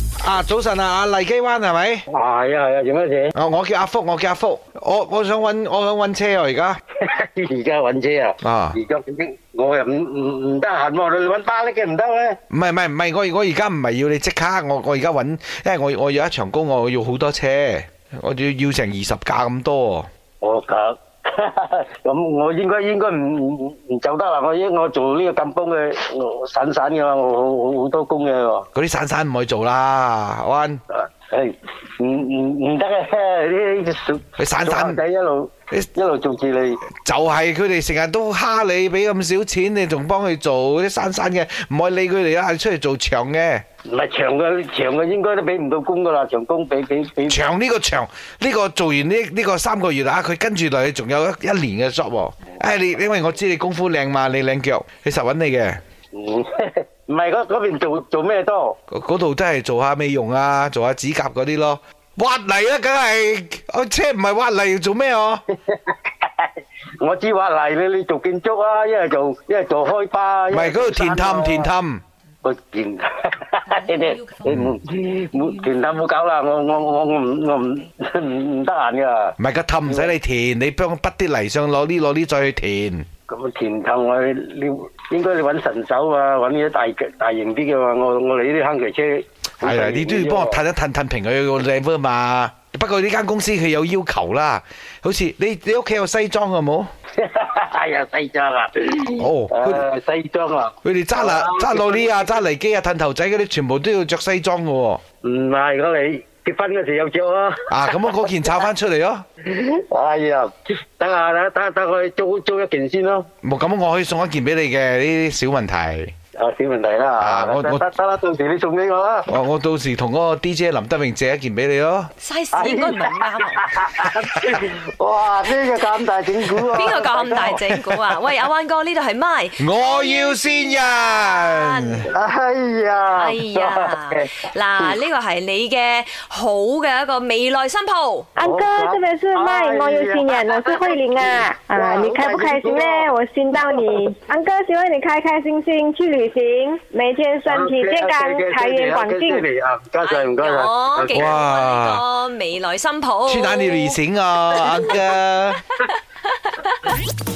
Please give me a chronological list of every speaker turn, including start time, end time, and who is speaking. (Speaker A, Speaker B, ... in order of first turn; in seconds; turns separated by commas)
Speaker A: 0.2-2.0, Speaker B: 2.1-3.3, Speaker A: 3.4-6.8, Speaker B: 7.0-12.4, Speaker A: 8.4-8.8, Speaker A: 12.5-20.1, Speaker B: 20.4-28.7, Speaker A: 28.8-30.8, Speaker B: 30.9-36.8, Speaker A: 34.4-35.0, Speaker A: 37.0-43.6, Speaker B: 43.9-47.5, Speaker A: 47.3-55.8, Speaker B: 56.1-58.8, Speaker A: 58.9-65.4, Speaker B: 65.7-66.5, Speaker B: 67.0-71.7, Speaker A: 70.5-72.0, Speaker B: 72.4-80.1, Speaker A: 74.5-74.7, Speaker A: 79.4-83.1, Speaker B: 83.3-90.6, Speaker A: 89.6-96.9, Speaker B: 97.2-102.3, Speaker A: 99.2-99.8, Speaker A: 100.8-105.0, Speaker B: 105.2-108.0, Speaker A: 107.7-109.2, Speaker B: 109.5-113.3, Speaker A: 113.4-116.1, Speaker B: 116.4-119.3, Speaker A: 117.2-117.8, Speaker A: 119.3-122.1, Speaker C: 122.2-123.8, Speaker B: 122.5-123.0, Speaker B: 123.6-127.6, Speaker A: 126.6-126.9, Speaker C: 126.7-132.1, Speaker A: 127.6-128.2, Speaker A: 129.6-132.1, Speaker B: 132.1-135.0, Speaker C: 133.2-138.3, Speaker D: 138.4-149.5, Speaker B: 138.4-144.1, Speaker B: 147.5-151.4, Speaker C: 150.0-154.0, Speaker A: 151.1-152.0, Speaker A: 153.3-155.6, Speaker C: 154.6-154.9, Speaker C: 156.4-156.9